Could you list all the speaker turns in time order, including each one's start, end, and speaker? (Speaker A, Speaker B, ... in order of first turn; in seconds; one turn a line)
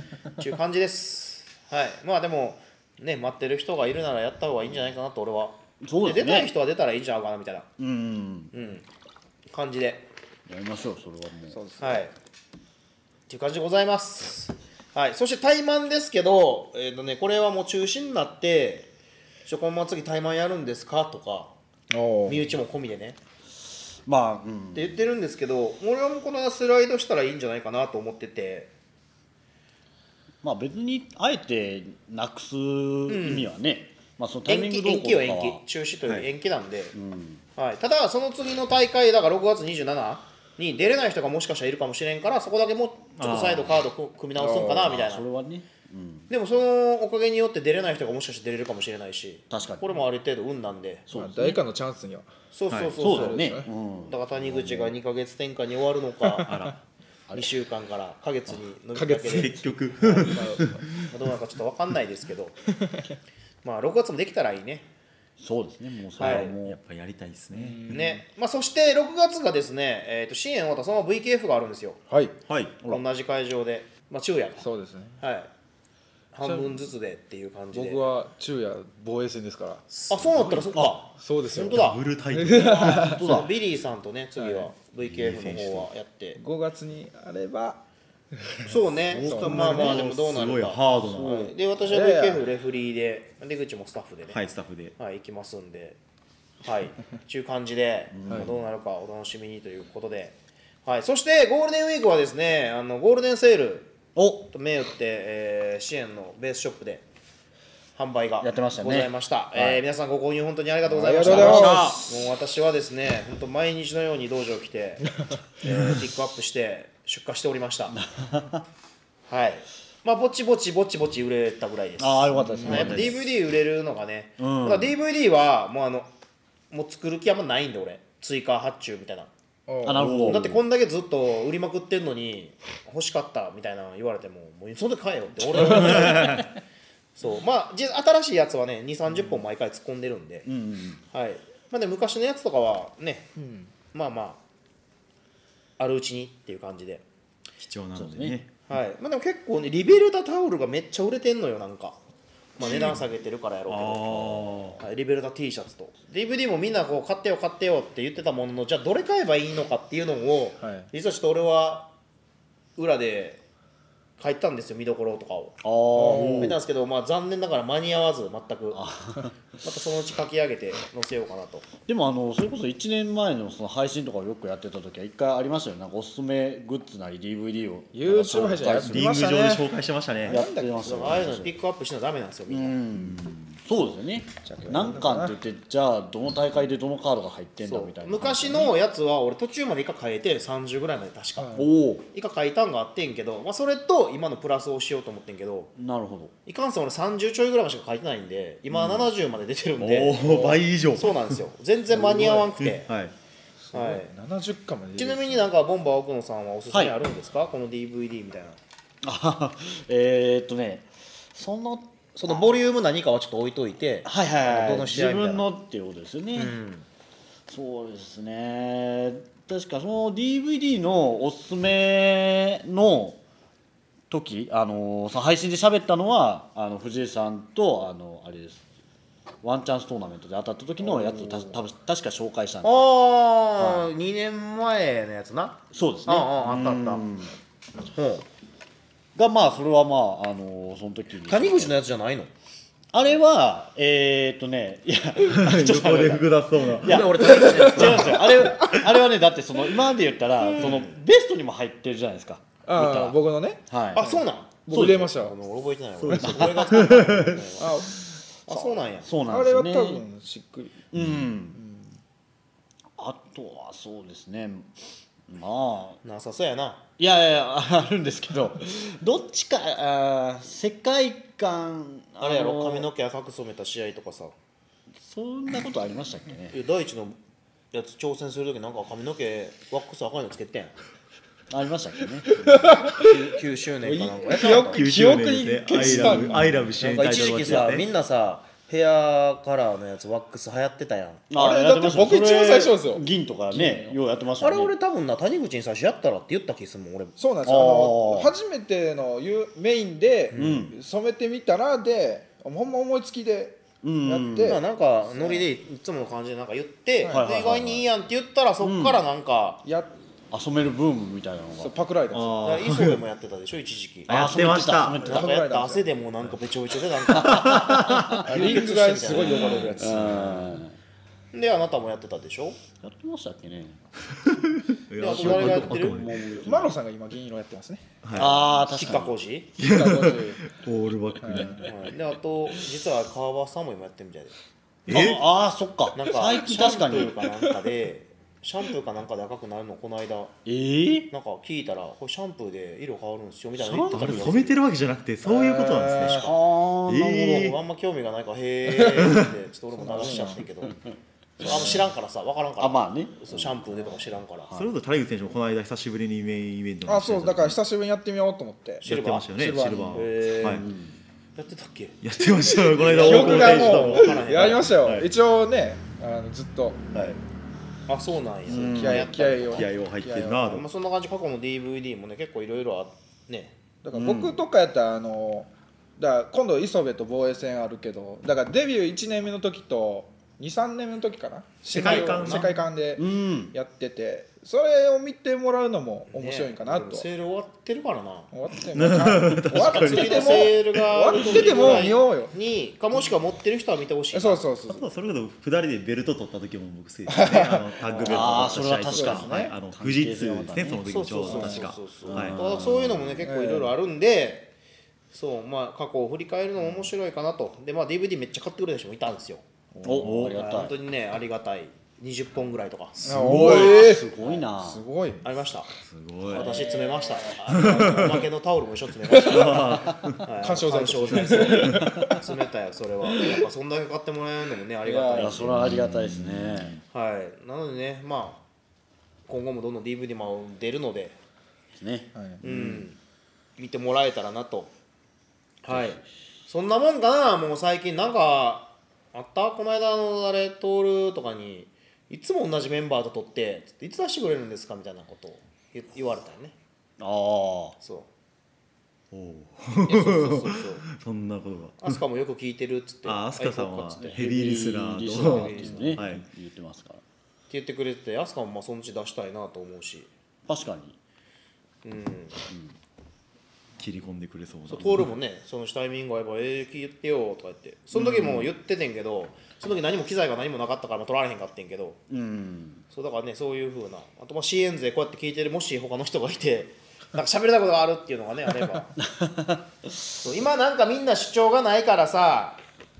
Speaker A: 0.4-7.7
Speaker B: 5.8-6.5
Speaker B: 7.8-8.5
Speaker A: 8.5-8.8
Speaker A: 9.5-10.1
Speaker B: 10.5-11.6
Speaker C: 11.5-12.1
Speaker A: 11.8-12.1
Speaker A: 13.3-18.9
Speaker A: 19.4-21.5
Speaker C: 21.9-22.4
Speaker A: 22.2-23.2
Speaker B: 24.0-25.0
Speaker A: 24.7-28.7
Speaker B: 30.4-35.6
Speaker A: 33.1-33.5
Speaker A: 34.5-36.9
Speaker B: 36.9-37.4
Speaker A: 37.5-45.2
Speaker D: 43.2-43.7
Speaker C: 44.4-44.8
Speaker B: 44.5-46.3
Speaker A: 46.3-51.1
Speaker B: 49.5-49.9
Speaker B: 51.1-51.6
Speaker C: 51.1-52.3
Speaker A: 52.5-53.5
Speaker D: 52.7-52.9
Speaker B: 53.0-54.9
Speaker C: 53.0-53.7
Speaker A: 54.0-56.5
Speaker D: 56.4-56.8
Speaker A: 57.3-59.7
Speaker C: 58.9-60.8
Speaker D: 59.3-60.9
Speaker A: 61.1-62.5
Speaker A: 63.6-64.9
Speaker B: 65.4-66.8
Speaker A: 66.2-66.5
Speaker D: 66.3-68.1
Speaker C: 67.5-68.2
Speaker A: 67.9-72.0
Speaker D: 72.5-72.8
Speaker A: 72.8-74.7
Speaker C: 74.6-75.2
Speaker A: 75.2-75.5
Speaker A: 76.3-78.0
Speaker C: 76.4-76.8
Speaker C: 77.7-79.8
Speaker A: 79.9-82.0
Speaker B: 80.4-81.0
Speaker C: 81.2-83.2
Speaker D: 81.6-83.1
Speaker B: 82.5-83.5
Speaker A: 83.0-86.4
Speaker C: 84.4-84.7
Speaker D: 85.0-85.9
Speaker C: 86.4-87.8
Speaker C: 88.4-90.0
Speaker A: 88.7-94.4
Speaker D: 89.2-91.5
Speaker B: 89.5-89.8
Speaker B: 91.0-91.5
Speaker C: 91.8-92.5
Speaker D: 94.3-95.0
Speaker A: 95.0-96.0
Speaker A: 96.6-103.9
Speaker B: 98.1-98.6
Speaker B: 104.1-104.5
Speaker A: 104.5-107.0
Speaker A: 107.9-118.0
Speaker B: 108.4-109.8
Speaker C: 110.9-112.0
Speaker B: 111.2-112.1
Speaker B: 117.9-118.6
Speaker A: 119.3-126.1
Speaker B: 122.0-123.3
Speaker C: 122.3-123.1
Speaker B: 124.4-124.9
Speaker A: 126.7-129.3
Speaker C: 129.7-130.4
Speaker B: 129.8-130.6
Speaker A: 130.0-136.5
Speaker B: 135.6-136.4
Speaker D: 135.8-136.4
Speaker A: 137.2-140.5
Speaker B: 140.4-141.0
Speaker A: 141.1-143.3
Speaker C: 143.3-143.7
Speaker A: 143.9-144.4
Speaker A: 145.8-147.0
Speaker D: 147.6-148.5
Speaker B: 147.9-148.4
Speaker A: 148.7-152.0
Speaker A: 152.6-161.9
Speaker D: 152.6-153.0
Speaker D: 153.7-154.8
Speaker C: 160.6-160.9
Speaker A: 162.8-163.4
Speaker A: 164.2-165.6
Speaker B: 165.6-166.6
Speaker C: 165.9-166.6
Speaker A: 166.1-168.9
Speaker B: 168.7-169.3
Speaker A: 169.6-171.7
Speaker B: 171.9-179.2
Speaker C: 177.9-179.7
Speaker D: 178.7-180.4
Speaker C: 180.2-181.1
Speaker B: 180.3-181.6
Speaker A: 180.8-182.8
Speaker B: 182.5-188.7
Speaker D: 182.9-183.4
Speaker C: 184.4-185.3
Speaker A: 187.6-195.7
Speaker C: 191.4-191.7
Speaker B: 191.5-192.0
Speaker B: 195.8-196.3
Speaker A: 196.4-202.9
Speaker D: 198.8-199.0
Speaker D: 199.8-201.4
Speaker C: 200.2-200.6
Speaker B: 201.9-202.5
Speaker D: 202.6-203.1
Speaker C: 203.7-205.5
Speaker A: 203.7-204.1
Speaker A: 204.9-208.6
Speaker B: 206.7-206.9
Speaker B: 209.0-212.5
Speaker A: 212.1-215.5
Speaker B: 214.0-216.6
Speaker A: 216.3-216.8
Speaker B: 217.5-223.2
Speaker B: 224.1-228.6
Speaker B: 229.4-232.9
Speaker A: 230.8-231.5
Speaker A: 232.6-237.1
Speaker B: 233.6-233.9
Speaker B: 235.7-237.3
Speaker A: 237.9-238.2
Speaker B: 239.1-241.8
Speaker A: 241.2-242.3
Speaker B: 242.9-254.1
Speaker D: 245.2-248.2
Speaker A: 246.8-248.3
Speaker A: 250.6-250.9
Speaker C: 252.7-255.3
Speaker A: 253.9-257.8
Speaker B: 254.7-255.1
Speaker D: 256.0-257.5
Speaker B: 256.1-257.0
Speaker C: 257.6-260.8
Speaker A: 258.5-259.1
Speaker B: 259.0-260.0
Speaker B: 260.9-261.6
Speaker C: 261.5-261.9
Speaker B: 263.0-264.7
Speaker B: 265.3-266.0
Speaker A: 266.0-266.8
Speaker B: 267.0-272.9
Speaker A: 272.2-274.3
Speaker B: 274.9-276.6
Speaker A: 276.5-277.2
Speaker A: 277.7-280.7
Speaker B: 281.5-282.9
Speaker C: 282.3-283.1
Speaker A: 283.0-284.8
Speaker C: 283.8-286.7
Speaker D: 284.5-287.9
Speaker B: 285.8-286.4
Speaker A: 286.8-291.2
Speaker B: 287.1-287.8
Speaker B: 291.3-294.7
Speaker C: 291.3-293.9
Speaker A: 294.4-297.1
Speaker C: 297.2-304.6
Speaker B: 297.4-298.3
Speaker B: 300.3-300.8
Speaker B: 303.8-304.6
Speaker A: 304.4-309.6
Speaker C: 305.2-305.4
Speaker B: 307.1-307.9
Speaker B: 308.6-309.0
Speaker C: 309.6-309.9
Speaker B: 310.3-311.7
Speaker C: 311.6-312.4
Speaker D: 312.1-313.0
Speaker A: 312.4-314.1
Speaker D: 314.1-315.1
Speaker B: 314.1-315.4
Speaker C: 315.0-315.9
Speaker A: 315.0-320.6
Speaker B: 317.1-318.5
Speaker D: 317.1-318.2
Speaker C: 318.2-320.2
Speaker B: 319.1-320.8
Speaker A: 321.3-322.6
Speaker B: 322.8-323.8
Speaker D: 324.1-326.2
Speaker A: 324.9-326.0
Speaker B: 325.1-326.7
Speaker C: 326.4-327.8
Speaker D: 328.0-328.4
Speaker A: 328.1-329.5
Speaker B: 328.1-329.1
Speaker D: 329.6-331.7
Speaker C: 329.6-330.4
Speaker C: 331.2-331.7
Speaker A: 331.6-334.3
Speaker D: 334.9-335.2
Speaker B: 334.9-337.4
Speaker A: 335.9-340.3
Speaker B: 340.4-341.1
Speaker A: 341.1-344.5
Speaker B: 343.6-344.5
Speaker D: 343.9-347.6
Speaker C: 345.2-346.3
Speaker B: 346.0-347.5
Speaker A: 347.1-350.8
Speaker D: 348.8-349.3
Speaker C: 349.8-350.4
Speaker A: 351.4-354.5
Speaker B: 351.4-351.9
Speaker B: 352.6-353.6
Speaker D: 354.5-357.6
Speaker C: 356.9-358.8
Speaker A: 358.8-359.3
Speaker D: 358.8-360.6
Speaker C: 359.4-360.0
Speaker A: 359.9-360.6
Speaker B: 360.4-361.0
Speaker A: 361.4-362.0
Speaker D: 362.0-365.1
Speaker A: 362.6-364.8
Speaker C: 363.0-366.8
Speaker D: 366.9-367.2
Speaker A: 367.9-369.7
Speaker B: 368.5-369.2
Speaker C: 368.6-370.5
Speaker D: 369.5-370.7
Speaker A: 370.4-373.6
Speaker C: 373.8-387.1
Speaker B: 373.9-374.4
Speaker D: 381.7-382.6
Speaker A: 381.7-382.5
Speaker B: 382.9-383.5
Speaker A: 386.1-388.3
Speaker C: 388.3-392.3
Speaker D: 388.7-390.7
Speaker A: 389.5-394.4
Speaker D: 391.4-391.9
Speaker C: 394.1-394.8
Speaker D: 394.7-402.6
Speaker C: 397.1-399.5
Speaker B: 398.0-401.4
Speaker A: 400.9-404.5
Speaker C: 401.2-401.6
Speaker B: 402.0-403.1
Speaker C: 403.2-403.7
Speaker A: 405.1-409.4
Speaker C: 409.7-410.3
Speaker B: 409.8-410.7
Speaker D: 409.9-410.4
Speaker A: 410.3-413.8
Speaker C: 413.0-415.2
Speaker B: 413.0-414.8
Speaker A: 415.2-415.7
Speaker D: 415.8-416.5
Speaker B: 416.2-417.9
Speaker A: 416.3-425.6
Speaker D: 417.5-418.2
Speaker D: 419.1-420.2
Speaker C: 420.4-422.2
Speaker D: 421.5-421.8
Speaker B: 421.8-422.1
Speaker C: 424.8-425.4
Speaker B: 425.1-426.8
Speaker D: 425.6-426.8
Speaker A: 426.9-428.4
Speaker A: 429.3-431.2
Speaker B: 431.7-432.8
Speaker C: 432.1-432.4
Speaker A: 432.4-433.0
Speaker A: 433.6-434.7
Speaker A: 435.6-446.5
Speaker B: 435.7-436.0
Speaker B: 447.0-447.8
Speaker A: 447.8-448.1
Speaker D: 449.1-452.0
Speaker A: 449.8-450.8
Speaker A: 451.8-454.3
Speaker D: 453.0-456.2
Speaker B: 454.0-457.0
Speaker A: 455.1-456.1
Speaker A: 457.5-460.1
Speaker B: 460.4-461.0
Speaker A: 461.8-462.4
Speaker B: 462.5-462.8
Speaker D: 463.8-465.1
Speaker A: 464.7-472.0
Speaker B: 467.9-468.5
Speaker B: 472.1-472.8
Speaker A: 472.9-478.9
Speaker B: 479.0-480.1
Speaker A: 480.2-482.6